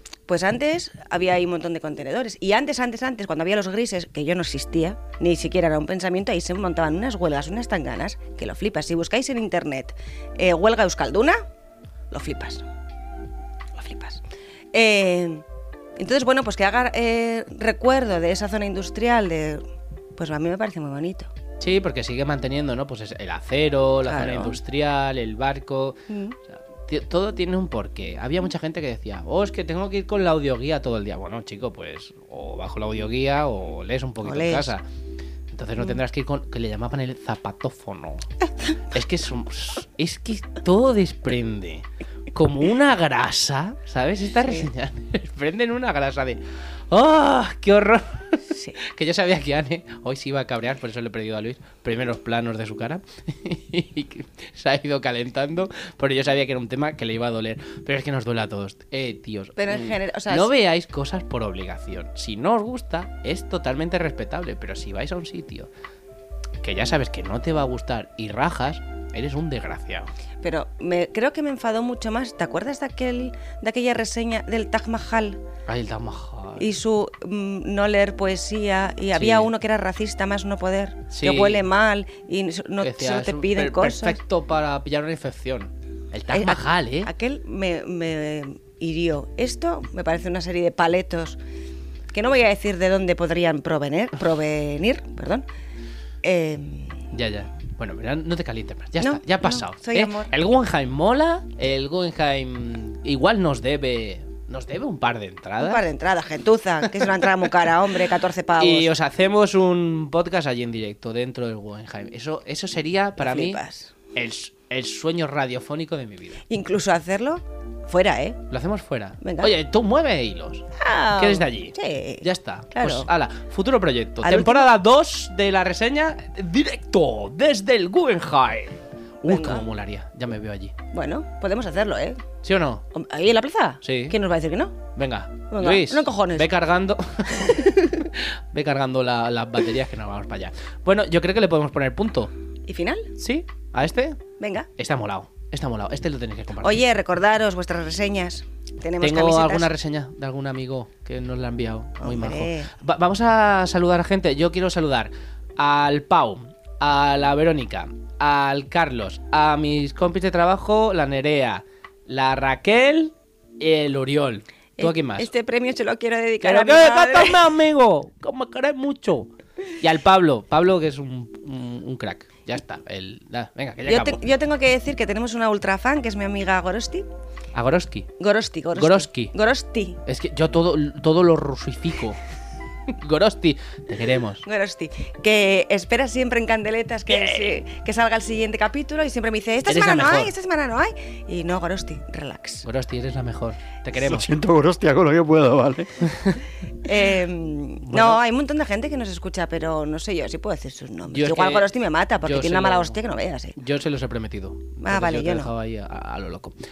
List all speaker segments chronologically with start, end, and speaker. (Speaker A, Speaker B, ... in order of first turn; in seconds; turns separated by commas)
Speaker A: 0.3-11.4, Speaker A: 12.1-12.6, Speaker A: 13.7-15.4, Speaker A: 16.0-19.6, Speaker A: 20.1-21.3, Speaker B: 21.6-34.8, Speaker A: 24.0-24.6, Speaker A: 26.1-26.4, Speaker A: 34.2-34.7, Speaker B: 35.5-38.2, Speaker B: 38.9-65.7, Speaker A: 59.6-60.5, Speaker B: 66.6-70.1, Speaker A: 70.4-75.4, Speaker B: 75.7-76.8, Speaker A: 76.6-84.2, Speaker B: 79.1-79.5, Speaker B: 81.1-81.6, Speaker B: 82.8-87.1, Speaker A: 86.3-91.4, Speaker A: 92.1-95.5, Speaker A: 96.2-97.1, Speaker B: 97.1-105.8, Speaker A: 99.0-100.3, Speaker A: 105.6-108.9, Speaker B: 106.9-107.5, Speaker B: 108.6-113.6, Speaker A: 113.2-113.9, Speaker B: 114.1-116.4, Speaker A: 116.5-118.4, Speaker B: 118.5-130.7, Speaker A: 119.2-119.5, Speaker A: 120.8-123.1, Speaker A: 124.2-124.7, Speaker A: 129.2-129.6, Speaker A: 130.9-132.2, Speaker B: 132.4-132.8, Speaker A: 132.9-134.8, Speaker B: 133.8-134.2, Speaker B: 134.9-142.3, Speaker A: 135.5-136.5, Speaker A: 142.7-143.1, Speaker B: 143.2-144.2, Speaker A: 144.4-144.7, Speaker B: 144.8-146.8, Speaker A: 146.6-149.7, Speaker B: 149.0-165.3, Speaker A: 152.0-152.7, Speaker A: 164.8-167.5, Speaker B: 166.4-174.2, Speaker A: 173.8-177.1, Speaker B: 177.5-178.1, Speaker A: 178.2-180.0, Speaker B: 178.7-179.3, Speaker B: 180.1-182.2, Speaker B: 182.9-184.4, Speaker A: 184.4-192.7, Speaker B: 187.1-187.6, Speaker B: 189.7-190.3, Speaker B: 192.6-194.3, Speaker C: 194.0-196.1, Speaker B: 196.0-196.4, Speaker A: 196.8-203.6, Speaker B: 197.9-198.2, Speaker B: 201.1-201.7, Speaker B: 202.2-203.0, Speaker B: 203.6-206.5, Speaker A: 204.8-205.5